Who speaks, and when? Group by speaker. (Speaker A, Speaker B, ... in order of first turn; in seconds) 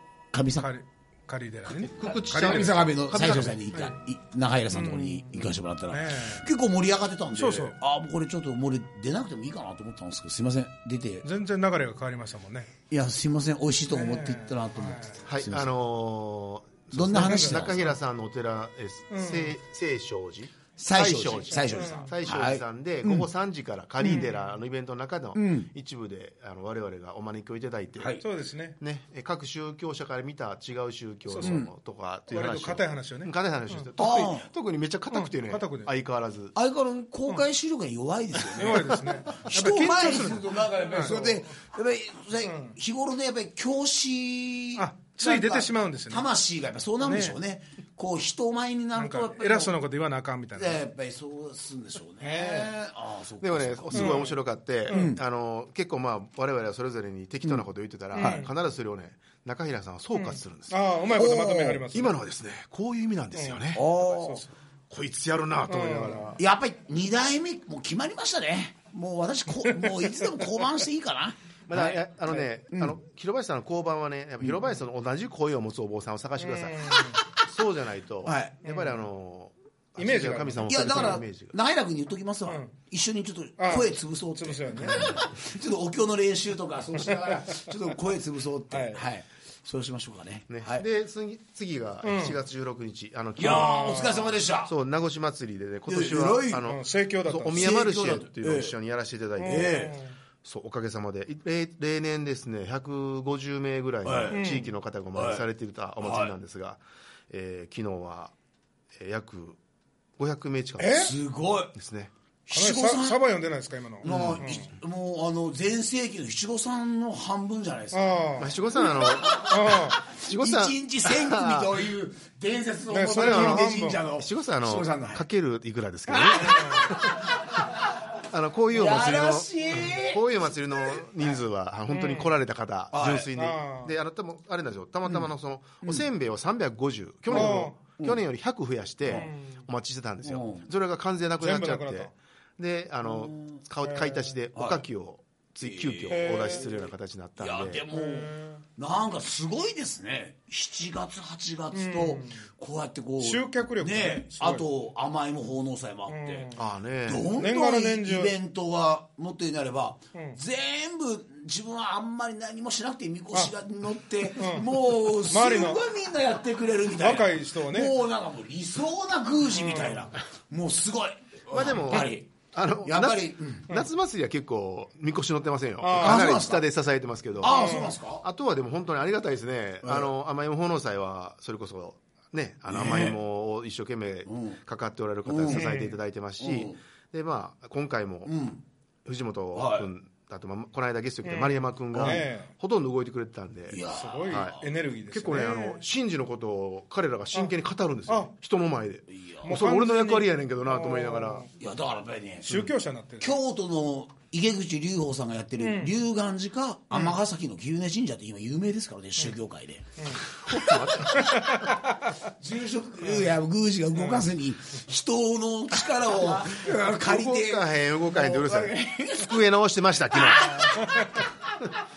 Speaker A: 0.3-0.7, 1.7-11.3, 12.9-15.7, 16.9-17.8, 20.8-23.3, 25.3-25.7, 28.0-28.2, 31.4-31.7, 34.0-34.5, 36.5-49.8, 50.5-54.3, 54.9-55.2, 57.4-58.5, 61.1-61.9, 63.7-64.4, 66.4-73.0, 78.2-78.5, 80.7-90.8, 93.4-94.7, 95.9-96.7, 97.5-98.7, 99.4-100.0, 104.0-104.5, 105.1-105.4, 106.0-106.3, 110.9-111.7, 112.5-113.2, 114.0-125.2, 126.5-126.7, 128.7-130.2, 132.9-133.3, 137.3-138.2, 140.2-140.7, 143.0-143.6, 144.5-144.8, 145.6-156.5, 157.1-173.7, 175.9-176.7, 177.4-178.2, 179.8-180.1, 182.7-183.2, 184.3-184.6, 185.2-185.8, 186.4-186.8, 188.2-188.6, 189.5-189.9, 191.9-192.2, 193.7-194.6, 199.1-199.6, 201.6-202.5, 203.2-210.8, 212.4-219.5, 220.1-221.7
Speaker B: 0.6-2.8, 3.3-3.9, 4.7-5.3, 5.9-6.5, 7.3-7.8, 11.2-12.7, 13.9-15.2, 17.2-17.9, 19.1-19.5, 21.7-22.1, 24.0-24.4, 28.2-28.8, 31.3-31.6, 32.3-33.9, 35.1-35.9, 38.4-41.4, 42.4-42.8, 44.8-46.3, 47.0-47.4, 48.9-50.8, 52.2-52.7, 53.9-55.1, 58.1-58.5, 60.1-62.1, 63.4-64.5, 65.7-66.3, 69.6-70.7, 76.4-77.2, 78.6-79.0, 80.0-81.2, 82.5-82.7, 83.6-85.2, 87.1-87.6, 88.7-89.0, 92.0-92.4, 93.4-94.2, 96.5-97.7, 99.4-100.1, 104.3-104.7, 110.8-111.1, 112.5-114.7, 117.9-118.5, 119.3-120.1, 122.9-124.1, 126.2-126.9, 131.9-132.3, 133.3-133.9, 137.3-137.8, 139.1-139.7, 141.4-142.1, 143.8-144.3, 146.1-146.7, 147.9-148.6, 151.7-152.5, 153.2-154.7, 156.1-156.7, 157.3-158.3, 164.3-165.8, 166.9-167.9, 169.5-170.1, 175.8-176.4, 177.4-177.9, 185.5-186.0, 191.2-192.5, 193.9-195.8, 198.1-198.3, 199.4-201.5, 202.4-203.3, 205.6-205.9, 210.0-210.2, 211.1-212.1, 213.0-213.3, 213.9-214.2, 220.7-221.0
Speaker C: 1.9-3.6, 15.2-28.2, 28.8-36.5, 53.4-60.8, 61.9-63.8, 64.9-66.4, 71.7-81.5, 90.5-94.1, 94.6-99.9, 100.4-108.3, 109.0-109.6, 110.2-111.0, 111.8-112.1, 114.1-114.4, 118.4-119.5, 120.1-121.8, 123.1-127.2, 128.3-147.8, 156.6-157.3, 171.5-188.3, 189.0-201.5, 210.5-211.3, 216.8-220.6